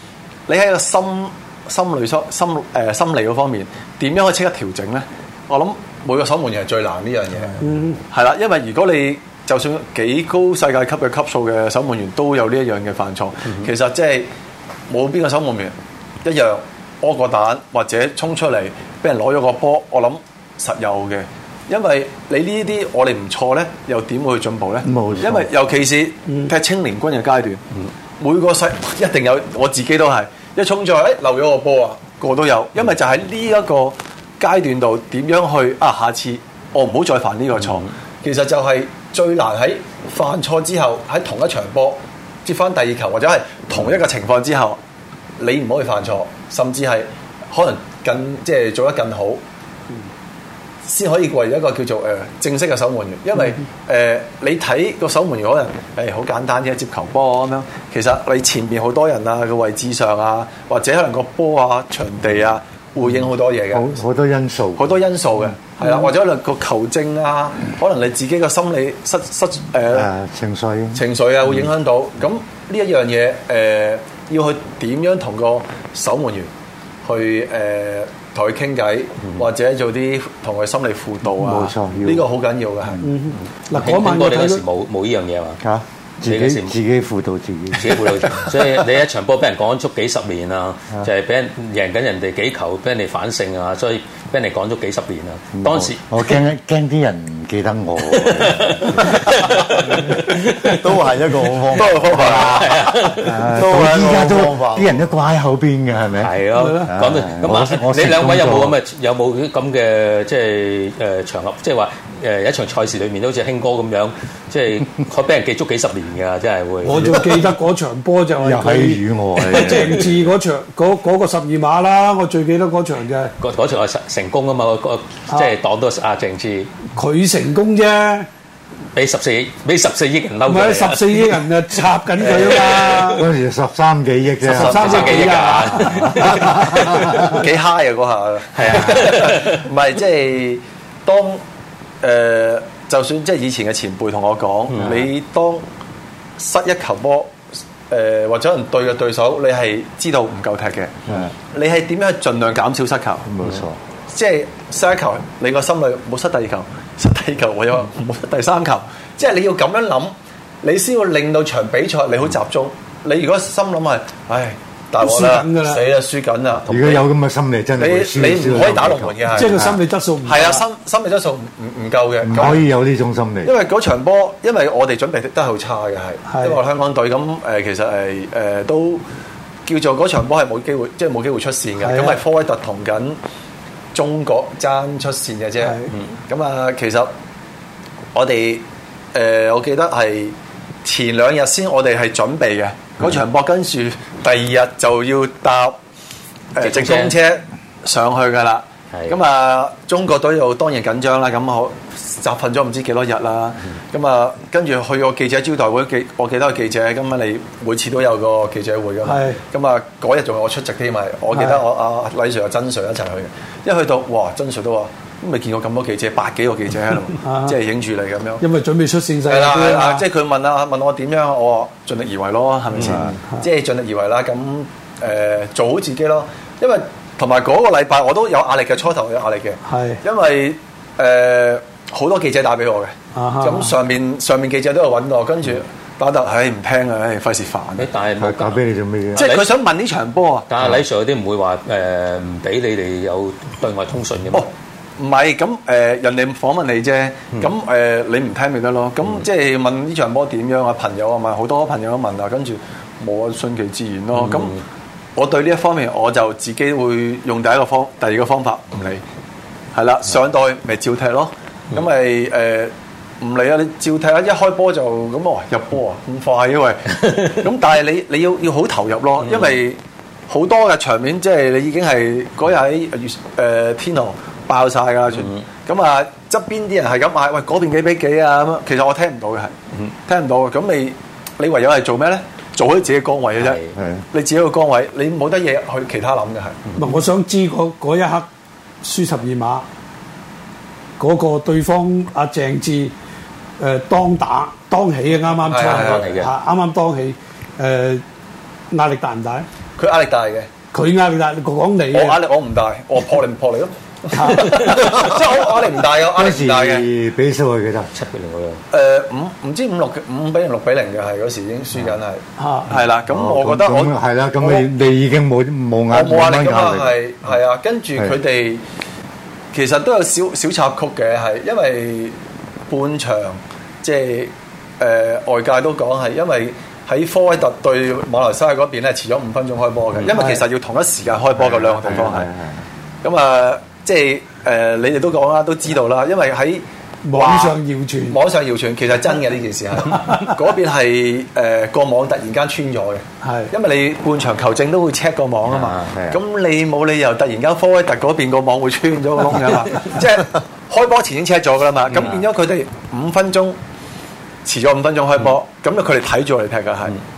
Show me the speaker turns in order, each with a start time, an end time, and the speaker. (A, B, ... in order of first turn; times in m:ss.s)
0:00.5-0:14.3 A
0:07.6-0:08.0 B
0:14.9-0:27.6 A
0:24.8-0:25.5 C
0:28.2-0:44.8 A
0:45.4-0:49.4 A
0:50.8-1:03.9 A
1:03.7-1:05.0 C
1:04.8-1:10.1 A
1:09.9-1:11.0 C
1:10.9-1:16.5 A
1:17.0-1:23.0 A
1:21.4-1:22.3 C
1:23.0-1:24.6 B
1:23.7-1:25.6 D
1:25.6-1:28.1 C
1:26.2-1:26.8 D
1:27.8-1:36.2 D
1:35.6-1:39.3 C
1:38.1-1:41.2 D
1:40.8-1:42.6 E
1:41.7-1:43.4 D
1:41.7-1:42.8 A
1:43.1-1:46.3 C
1:43.5-1:45.0 E
1:46.2-1:57.2 D
1:46.6-1:46.9 B
1:46.8-1:48.8 C
1:56.8-2:03.3 B
1:56.9-1:57.2 C
1:58.4-2:00.1 C
2:03.4-2:06.7 D
2:06.9-2:08.3 B
2:08.9-2:11.4 D
2:10.4-2:13.2 B
2:12.2-2:12.8 A
2:12.2-2:13.1 D
2:13.2-2:15.2 C
2:14.5-2:17.4 B
2:14.6-2:17.1 D
2:14.6-2:15.4 A
2:17.2-2:21.4 A
2:18.6-2:19.7 D
2:22.0-2:25.6 A
2:26.4-2:27.4 A
2:27.9-2:31.0 A
2:31.5-2:33.2 A
2:33.2-2:33.8 C
2:34.1-2:47.0 A
2:45.0-2:45.8 B
2:46.7-2:49.6 C
2:47.8-2:49.7 A
2:49.3-2:50.6 B
2:50.2-2:52.6 A
2:52.2-2:53.5 C
2:53.4-2:59.0 A
2:56.3-2:56.6 B
2:59.6-3:03.2 A
3:01.8-3:02.2 B
3:03.9-3:07.1 A
3:05.6-3:05.9 B
3:08.1-3:15.8 A
3:16.5-3:38.4 A
3:16.6-3:17.2 D
3:29.0-3:29.4 B
3:31.3-3:31.6 B
3:37.2-3:37.6 B
3:38.4-3:40.0 B
3:39.2-3:57.8 A
3:42.8-3:43.1 C
3:49.6-3:50.0 B
3:53.1-3:53.8 B
3:57.8-3:58.6 D
3:58.2-3:59.3 C
3:59.1-3:59.5 D
3:59.1-4:00.5 A
4:00.5-4:04.5 D
4:04.3-4:14.6 A
4:14.2-4:14.6 D
4:15.2-4:19.0 A
4:19.7-4:39.5 A
4:40.1-4:43.6 A
4:43.4-4:43.7 D
4:43.8-4:44.0 C
4:44.1-4:46.6 A
4:46.8-4:48.3 B
4:48.8-4:49.6 B
4:51.0-4:52.9 B
4:53.6-4:58.0 B
4:55.4-4:56.2 A
4:55.6-4:56.3 D
4:58.7-4:59.4 B
4:59.8-5:00.5 A
5:00.7-5:02.2 B
5:01.9-5:06.9 A
5:04.1-5:04.6 B
5:04.5-5:05.0 D
5:06.1-5:07.9 C
5:07.9-5:08.6 D
5:08.7-5:14.7 A
5:12.4-5:12.7 B
5:13.1-5:17.0 C
5:15.9-5:18.6 A
5:19.5-5:22.2 A
5:22.7-5:32.3 A
5:30.1-5:30.4 B
5:31.4-5:32.6 C
5:33.0-5:37.6 A
5:37.0-5:38.2 B
5:38.1-5:53.6 A
5:39.9-5:40.2 B
5:43.2-5:43.5 B
5:45.5-5:45.9 D
5:45.9-5:46.2 C
5:54.4-5:57.0 A